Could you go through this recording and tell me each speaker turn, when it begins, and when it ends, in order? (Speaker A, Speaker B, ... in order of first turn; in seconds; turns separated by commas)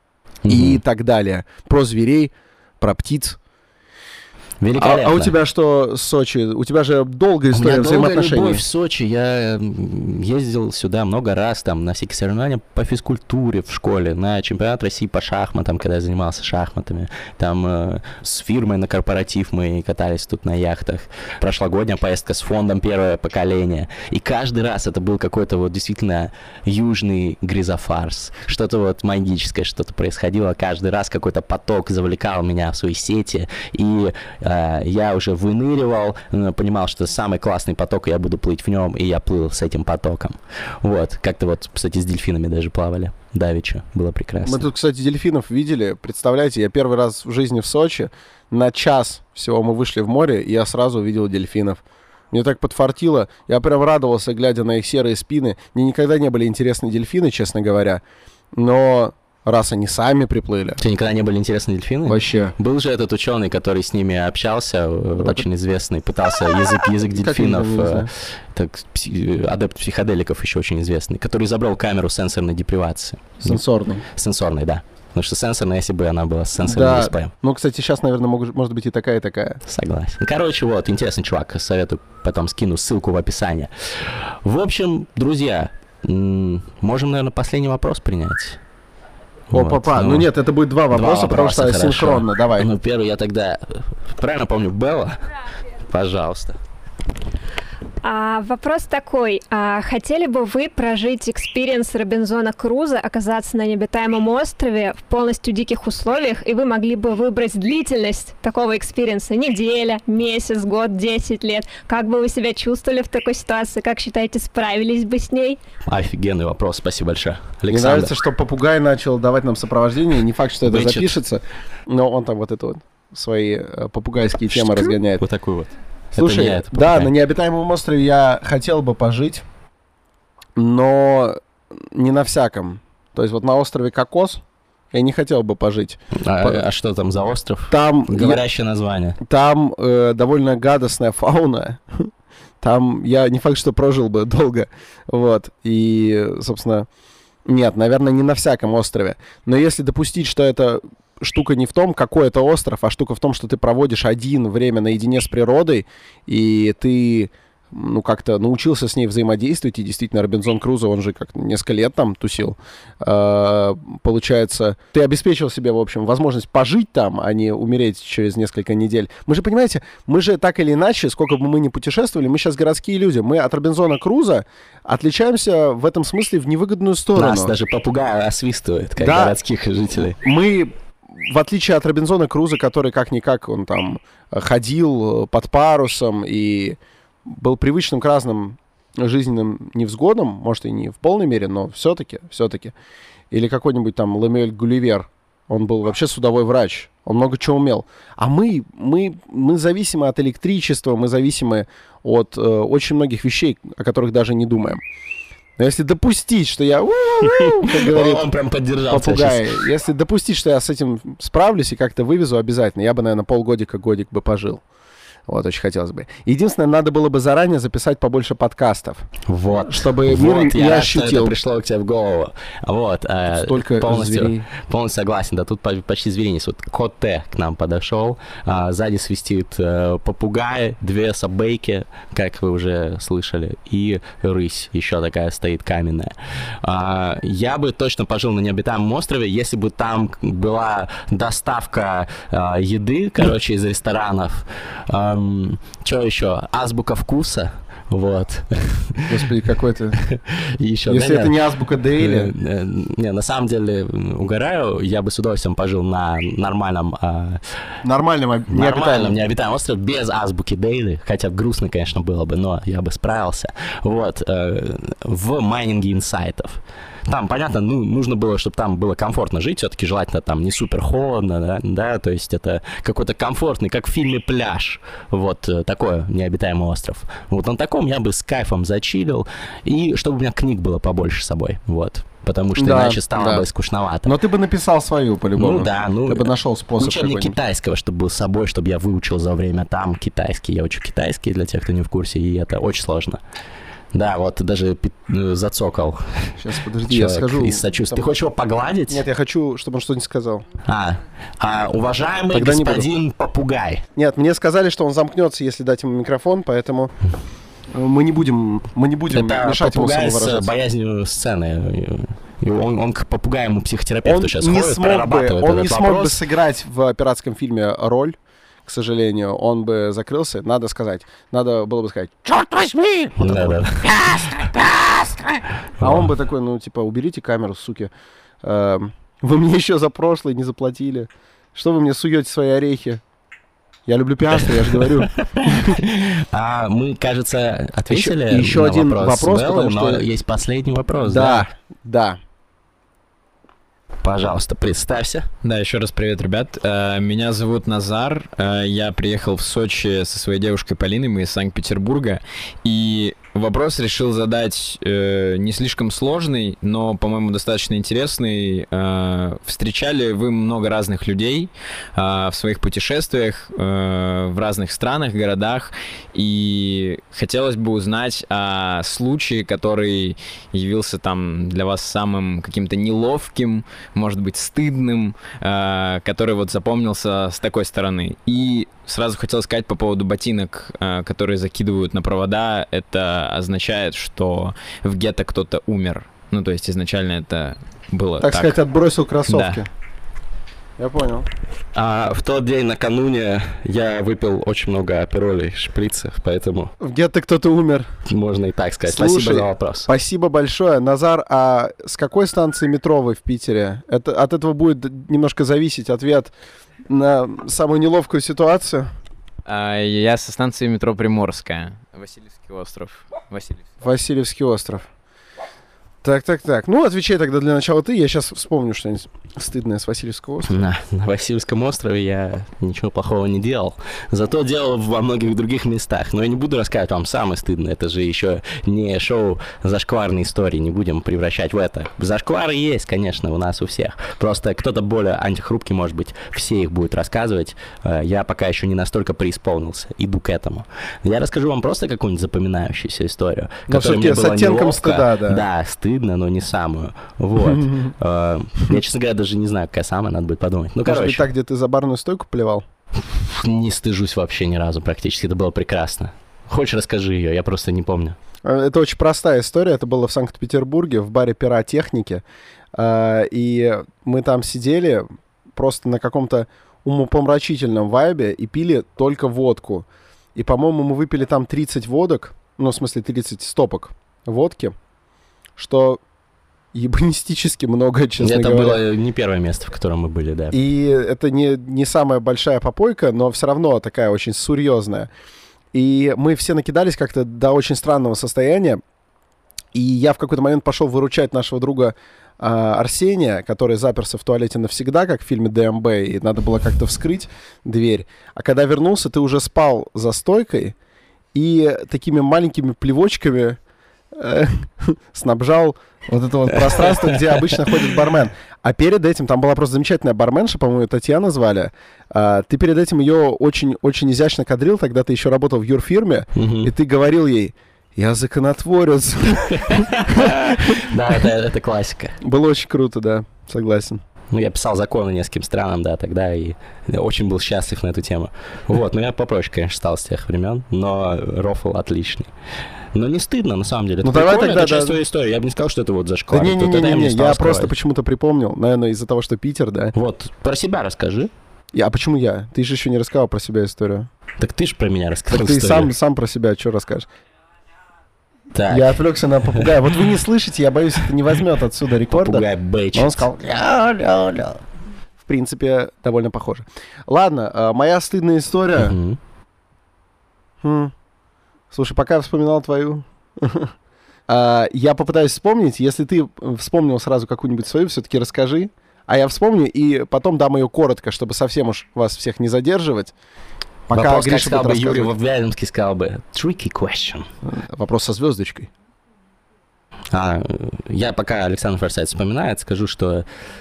Speaker A: 0.4-0.8, Speaker B: 0.5-3.4, Speaker A: 4.6-5.4, Speaker B: 4.8-8.6, Speaker A: 7.5-44.7, Speaker B: 44.4-58.0, Speaker B: 58.5-60.8, Speaker A: 60.8-73.6, Speaker B: 62.0-62.5, Speaker B: 65.2-65.5, Speaker B: 67.0-68.1, Speaker B: 73.4-74.0, Speaker A: 74.1-77.3, Speaker B: 76.6-79.6, Speaker A: 79.7-88.6, Speaker A: 89.5-90.3, Speaker B: 89.5-92.7, Speaker A: 90.9-95.2, Speaker A: 95.8-96.6, Speaker C: 98.0-115.6, Speaker A: 115.8-118.1, Speaker B: 117.7-125.2, Speaker A: 120.6-121.2, Speaker A: 124.5-127.1, Speaker B: 126.2-129.4, Speaker B: 130.6-136.6, Speaker A: 136.1-139.2, Speaker B: 137.7-138.4, Speaker B: 139.2-142.1, Speaker B: 142.6-146.9, Speaker B: 147.4-177.5, Speaker A: 177.1-180.2, Speaker B: 179.0-179.4, Speaker B: 179.9-192.7, Speaker B: 193.3-204.8, Speaker B: 205.6-208.2, Speaker A: 207.2-209.6, Speaker B: 208.9-214.6, Speaker B: 215.3-219.1, Speaker A: 219.3-249.1, Speaker B: 219.7-221.4, Speaker B: 223.3-224.4, Speaker B: 249.1-250.0, Speaker A: 250.1-251.3, Speaker B: 250.9-252.3, Speaker A: 252.0-257.4, Speaker B: 257.8-259.1, Speaker A: 258.5-284.1, Speaker B: 282.6-283.4, Speaker B: 284.0-287.4, Speaker A: 285.4-293.2, Speaker A: 293.9-296.3, Speaker B: 296.4-298.1, Speaker A: 296.9-299.0, Speaker B: 298.9-300.4, Speaker A: 300.6-303.8, Speaker B: 302.3-302.9, Speaker B: 303.9-306.9, Speaker B: 307.7-310.5, Speaker A: 309.1-316.2, Speaker B: 314.0-327.9, Speaker A: 323.2-323.9, Speaker A: 325.8-326.1, Speaker B: 328.4-333.0, Speaker B: 333.9-335.8, Speaker A: 334.4-341.4, Speaker B: 337.9-340.1, Speaker B: 341.1-342.2, Speaker A: 344.0-345.3, Speaker D: 345.4-388.6, Speaker B: 388.2-389.7, Speaker D: 389.3-389.6, Speaker B: 390.8-391.3, Speaker A: 391.7-396.7, Speaker B: 396.8-397.9, Speaker A: 398.1-399.9, Speaker B: 398.9-406.3, Speaker B: 406.9-408.9, Speaker D: 409.4-413.7, Speaker B: 413.8-414.9, Speaker B: 416.0-420.5, Speaker A: 420.4-451.2, Speaker B: 443.7-445.4, Speaker B: 447.4-447.9, Speaker B: 450.8-452.6, Speaker A: 453.1-458.2, Speaker B: 458.4-462.2, Speaker B: 462.7-474.7, Speaker B: 475.6-476.0, Speaker B: 476.7-478.8, Speaker A: 478.2-480.6, Speaker B: 480.5-485.1, Speaker B: 485.7-488.8, Speaker B: 489.7-500.8, Speaker B: 501.3-503.6, Speaker B: 504.1-520.8, Speaker A: 506.5-507.9, Speaker A: 516.3-516.7, Speaker A: 519.5-522.2, Speaker B: 522.2-524.0, Speaker A: 524.3-532.3, Speaker A: 532.9-537.7, Speaker B: 534.0-535.0, Speaker B: 536.3-539.9, Speaker A: 539.9-541.3, Speaker B: 541.7-544.1, Speaker A: 544.4-545.9, Speaker B: 545.3-547.1, Speaker A: 548.5-549.0, Speaker B: 548.7-554.6, Speaker A: 552.1-553.2, Speaker B: 555.2-559.0, Speaker A: 558.8-559.2, Speaker B: 560.6-560.9, Speaker B: 561.7-563.7, Speaker B: 564.3-573.1, Speaker B: 573.9-575.1, Speaker A: 573.9-577.3, Speaker B: 577.4-578.7, Speaker A: 580.1-583.3